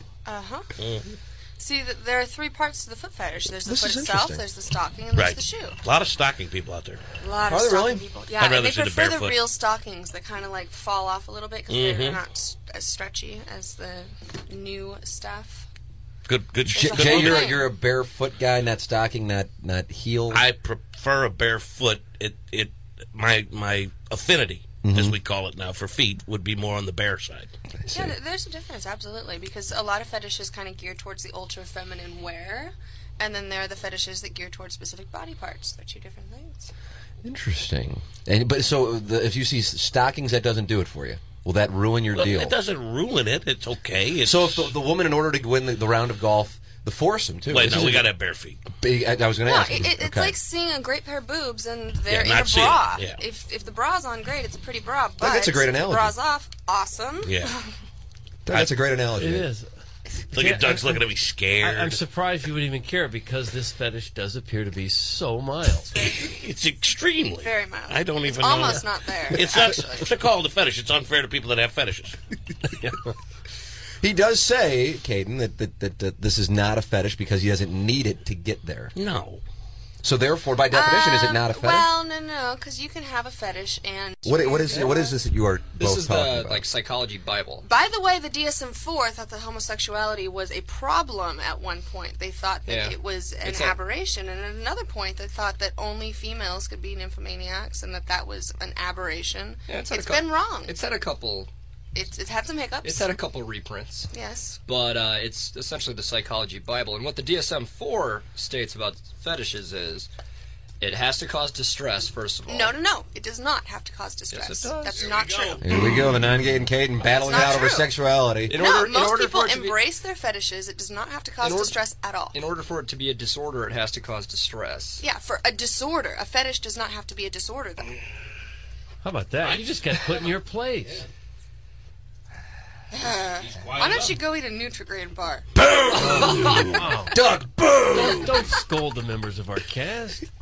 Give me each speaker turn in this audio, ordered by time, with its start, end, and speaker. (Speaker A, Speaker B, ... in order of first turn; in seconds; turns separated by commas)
Speaker A: 0.2-0.7, Speaker B: 0.8-1.1, Speaker A: 1.6-5.8, Speaker C: 3.6-4.4, Speaker B: 5.1-7.0, Speaker A: 7.2-15.7, Speaker C: 7.5-8.1, Speaker B: 8.4-9.4, Speaker B: 11.7-12.2, Speaker B: 16.2-17.6, Speaker C: 16.7-20.4, Speaker A: 16.7-17.6, Speaker B: 20.3-27.5, Speaker C: 24.8-25.1, Speaker C: 27.8-28.1, Speaker A: 27.9-36.7, Speaker C: 37.2-42.6, Speaker B: 42.1-44.7, Speaker C: 44.2-48.1, Speaker B: 47.5-48.6, Speaker C: 48.7-50.4, Speaker A: 49.5-57.7, Speaker B: 52.1-53.2, Speaker C: 55.2-56.1, Speaker B: 57.2-57.5, Speaker C: 58.5-59.5, Speaker D: 59.2-59.7, Speaker D: 60.3-61.0, Speaker B: 60.3-62.0, Speaker D: 61.6-65.9, Speaker A: 65.9-66.3, Speaker B: 66.0-72.2, Speaker A: 67.4-70.1, Speaker C: 74.0-78.9, Speaker B: 78.9-79.4, Speaker C: 80.0-81.9, Speaker A: 80.7-85.2, Speaker C: 84.2-86.6, Speaker E: 85.8-87.7, Speaker A: 87.6-100.8, Speaker E: 92.7-93.8, Speaker E: 99.7-101.5, Speaker A: 101.9-103.1, Speaker E: 102.8-104.1, Speaker A: 104.1-104.6, Speaker E: 104.7-110.1, Speaker E: 110.8-112.7, Speaker A: 112.5-115.8, Speaker E: 114.3-115.0, Speaker B: 114.9-115.6, Speaker C: 115.6-118.6, Speaker A: 117.0-117.9, Speaker E: 118.5-119.8, Speaker A: 118.6-122.4, Speaker E: 121.4-121.8, Speaker E: 122.3-125.0, Speaker A: 125.0-128.0, Speaker D: 129.0-131.0, Speaker B: 129.4-130.0, Speaker A: 132.9-135.5, Speaker B: 133.4-134.2, Speaker A: 136.0-136.8, Speaker C: 136.1-136.5, Speaker D: 136.1-137.1, Speaker C: 137.1-138.3, Speaker D: 137.9-140.2